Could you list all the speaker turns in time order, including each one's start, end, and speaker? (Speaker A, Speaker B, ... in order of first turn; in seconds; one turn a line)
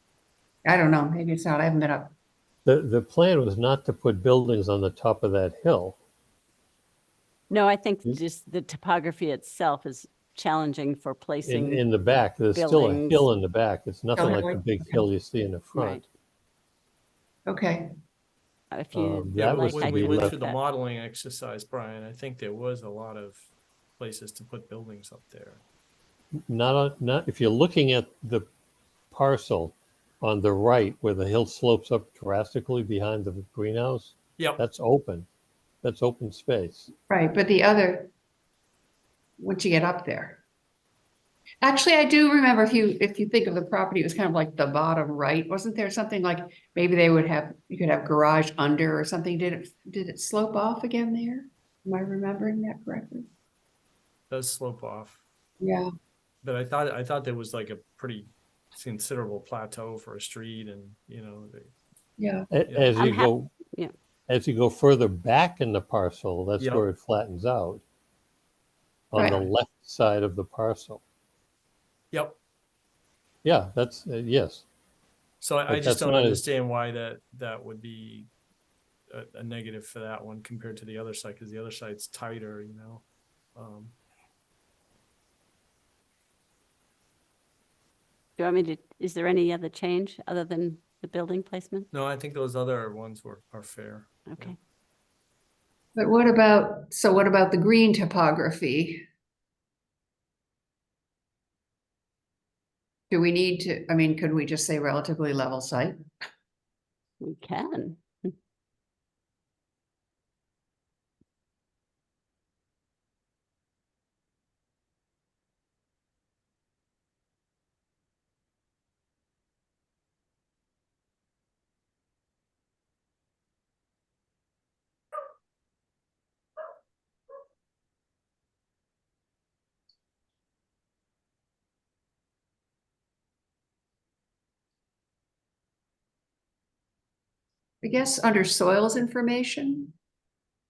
Speaker A: 0.6-2.1
Speaker B: 2.6-6.0
Speaker C: 7.5-11.9
Speaker B: 11.4-16.0
Speaker C: 12.5-13.3
Speaker A: 14.2-15.0
Speaker C: 15.7-16.1
Speaker A: 17.5-17.9
Speaker C: 18.7-20.6
Speaker B: 18.9-20.4
Speaker D: 19.3-23.5
Speaker D: 24.0-25.6
Speaker B: 26.5-28.5
Speaker B: 29.1-35.3
Speaker B: 35.8-36.9
Speaker A: 37.1-38.1
Speaker A: 39.4-40.4
Speaker A: 41.6-53.3
Speaker D: 54.3-55.2
Speaker A: 55.6-55.9
Speaker D: 56.4-61.7
Speaker A: 62.2-62.5
Speaker B: 62.5-63.5
Speaker C: 63.0-63.9
Speaker B: 64.3-67.8
Speaker D: 66.6-66.8
Speaker B: 69.1-71.0
Speaker A: 69.2-69.5
Speaker D: 72.1-72.4
Speaker B: 73.4-74.6
Speaker D: 75.4-78.3
Speaker B: 75.7-76.5
Speaker D: 79.1-83.9
Speaker C: 88.4-91.9
Speaker D: 91.9-94.5
Speaker C: 94.3-94.6
Speaker A: 96.0-99.0
Speaker A: 103.1-106.0
Speaker C: 107.2-108.3
Speaker A: 137.8-139.9